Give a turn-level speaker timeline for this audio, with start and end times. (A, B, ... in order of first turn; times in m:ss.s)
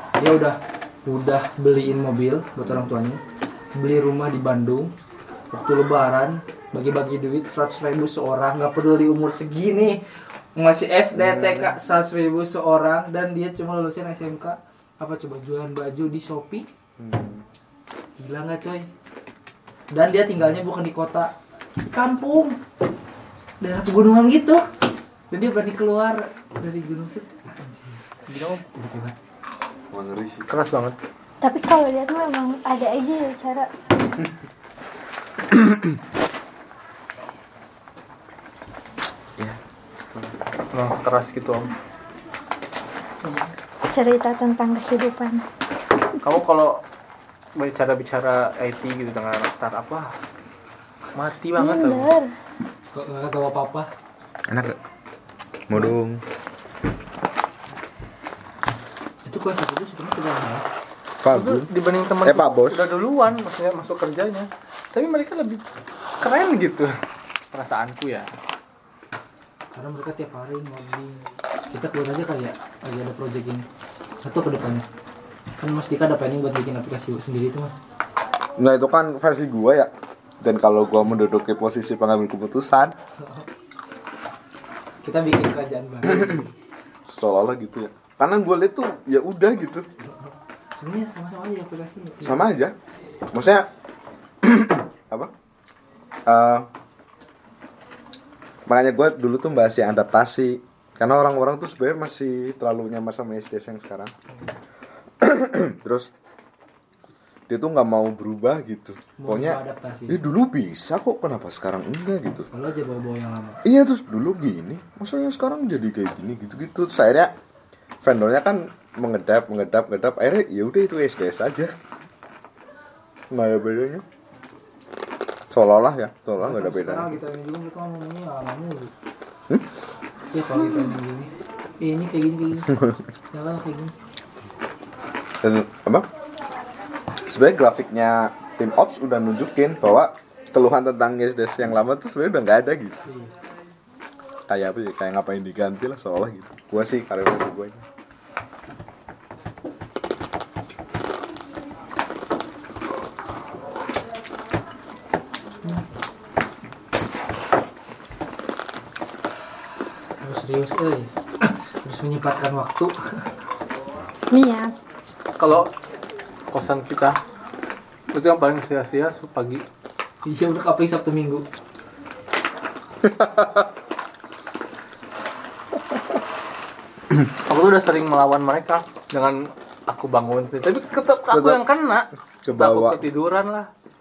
0:00.2-0:03.2 A
0:03.7-0:04.9 A
0:05.5-0:10.0 A
0:10.6-0:16.7 A
0:11.1-0:11.7 B
0:17.0-0:17.4 B
0:18.2-0:18.9 A
0:19.9-0:21.3 A
0:21.9-0:22.6 A
0:23.6-0:24.6 A
0:25.3-0:29.2 A
0:28.3-0:28.6 C
0:29.9-0:30.5 B
0:30.5-0:31.0 C
0:31.4-0:33.7 D
0:35.5-0:36.0 B
0:40.7-0:41.7 C
0:43.9-0:45.4 D
0:46.2-0:46.8 C
0:47.6-0:50.2 C
0:51.2-0:52.1 C
0:51.6-0:52.3 D
0:52.9-0:53.9 A
0:54.5-0:54.8 B
0:55.7-0:56.2 B
0:59.3-1:00.7 A
1:01.2-1:01.7 B
1:01.3-1:05.6 C
1:02.2-1:02.9 B
1:06.2-1:06.9 C
1:07.5-1:08.3 C
1:09.7-1:13.6 A
1:14.2-1:14.9 A
1:15.6-1:17.8 A
1:18.6-1:23.0 B
1:23.2-1:23.5 A
1:25.0-1:26.5 A
1:26.1-1:26.4 B
1:27.1-1:29.9 B
1:30.1-1:32.5 A
1:32.2-1:32.8 B
1:33.3-1:33.7 B
1:34.4-1:35.3 B
1:36.3-1:36.7 B
1:38.7-1:44.1 B
1:45.2-1:46.1 B
1:47.5-1:52.5 B
1:49.2-1:50.2 A
1:52.4-1:53.6 A
1:53.6-1:57.3 B
1:58.0-2:01.7 B
2:03.3-2:04.0 B
2:05.5-2:07.1 B
2:06.4-2:08.9 A
2:10.3-2:12.7 A
2:12.7-2:13.0 B
2:13.3-2:13.9 A
2:15.4-2:16.1 B
2:17.3-2:23.1 B
2:23.0-2:23.3 A
2:24.5-2:27.8 B
2:40.2-2:43.3 A
2:44.3-2:44.7 D
2:45.4-2:45.7 C
2:46.5-2:47.2 C
2:48.1-2:49.6 C
2:50.2-2:51.4 A
2:53.0-2:53.7 B
2:57.5-3:03.7 C
3:01.3-3:01.6 B
3:02.4-3:03.0 B